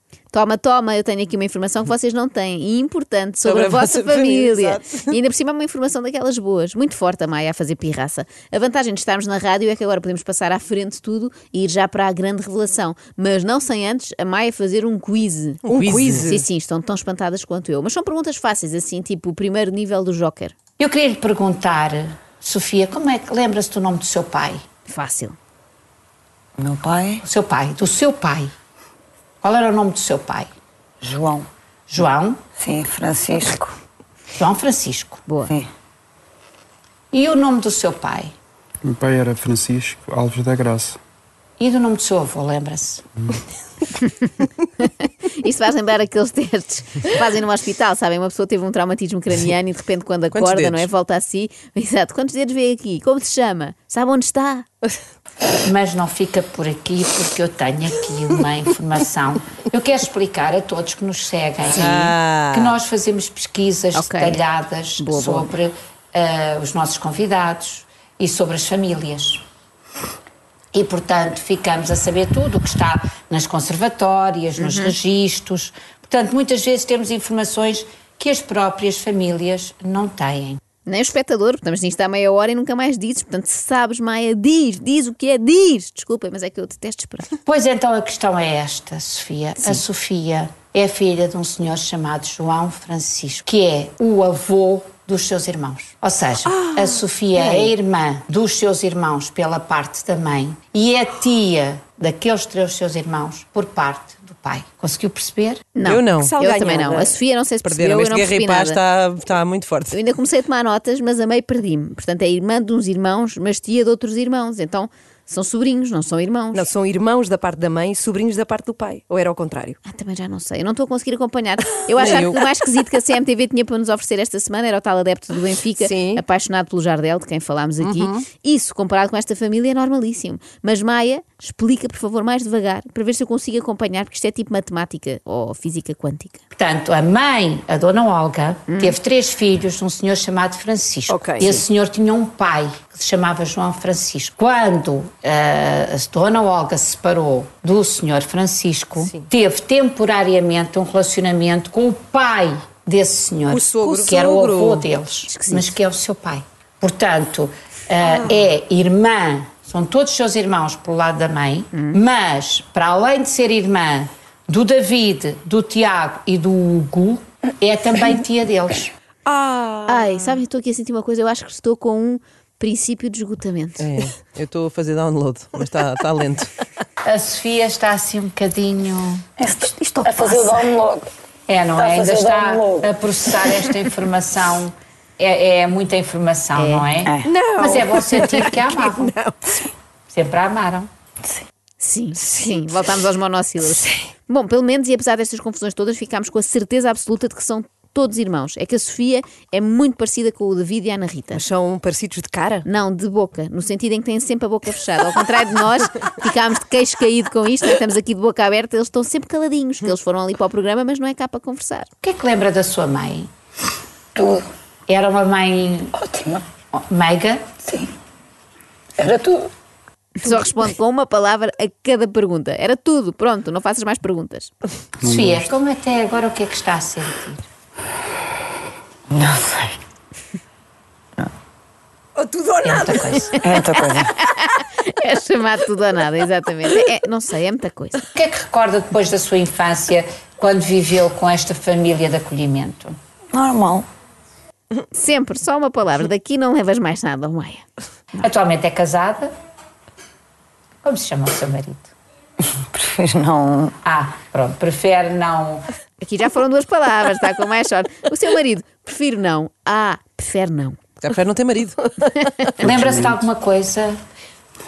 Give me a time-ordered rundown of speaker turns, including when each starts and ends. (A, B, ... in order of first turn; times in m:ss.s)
0:00.3-0:20.5 A
0:03.4-0:05.1 B
0:15.6-0:16.4 C
0:15.7-0:16.3 B
0:20.8-0:24.6 D
0:24.9-0:25.4 A
0:26.6-0:27.2 E
0:27.2-0:28.5 D
0:29.4-0:30.5 D
0:31.0-0:31.5 E
0:31.9-0:32.4 D
0:32.6-0:33.7 E
0:34.4-0:35.2 D
0:35.3-0:35.6 A
0:37.1-0:38.3 D
0:38.8-0:41.0 F
0:41.6-0:43.0 D
0:44.8-0:54.7 A
0:50.3-0:50.9 B
0:55.6-1:09.4 D
1:01.7-1:02.8 B
1:03.9-1:04.4 A
1:05.0-1:05.5 A
1:10.7-1:20.6 D
1:14.6-1:15.0 A
1:20.8-1:27.4 A
1:27.4-1:45.7 D
1:37.3-1:37.7 A
1:45.8-1:48.8 A
1:45.8-1:46.3 B
1:46.2-1:47.2 C
1:47.6-1:50.0 B
1:49.9-1:56.7 A
1:56.5-1:59.8 C
1:59.8-2:16.4 A
2:02.0-2:02.2 C
2:02.0-2:02.4 B
2:05.8-2:06.2 C
2:07.8-2:08.2 B
2:16.6-2:48.9 D
2:18.7-2:19.0 A
2:21.1-2:21.5 C
2:33.5-2:34.9 C
2:35.3-2:35.7 A
2:41.7-2:42.0 A
2:49.3-2:50.3 B
2:49.9-2:54.0 A
2:53.8-2:56.5 B
2:57.0-2:59.2 D
2:59.4-3:01.1 E
3:01.5-3:09.1 D
3:01.8-3:02.9 E
3:06.6-3:06.9 A
3:07.2-3:09.3 C
3:10.1-3:10.9 D
3:11.8-3:21.4 A
3:12.2-3:12.6 C
3:21.3-3:22.6 C
3:22.6-3:31.9 A
3:32.0-3:33.3 D
3:34.2-3:34.4 E
3:34.9-3:35.9 D
3:35.9-3:36.4 E
3:36.7-3:37.4 D
3:37.6-3:37.9 E
3:39.0-3:39.5 E
3:40.2-3:44.5 A
3:45.0-3:47.4 D
3:49.1-3:49.8 E
3:52.2-3:53.3 C
3:52.6-3:53.4 D
3:53.4-3:54.1 E
3:53.4-3:58.1 A
3:58.1-4:03.0 D
4:03.3-4:03.8 E
4:04.9-4:07.6 A
4:08.2-4:09.3 D
4:10.8-4:11.9 D
4:12.7-4:13.7 E
4:13.8-4:15.6 D
4:16.0-4:20.8 A
4:21.0-4:21.9 B
4:22.2-4:22.5 A
4:22.6-4:24.0 D
4:22.7-4:23.1 F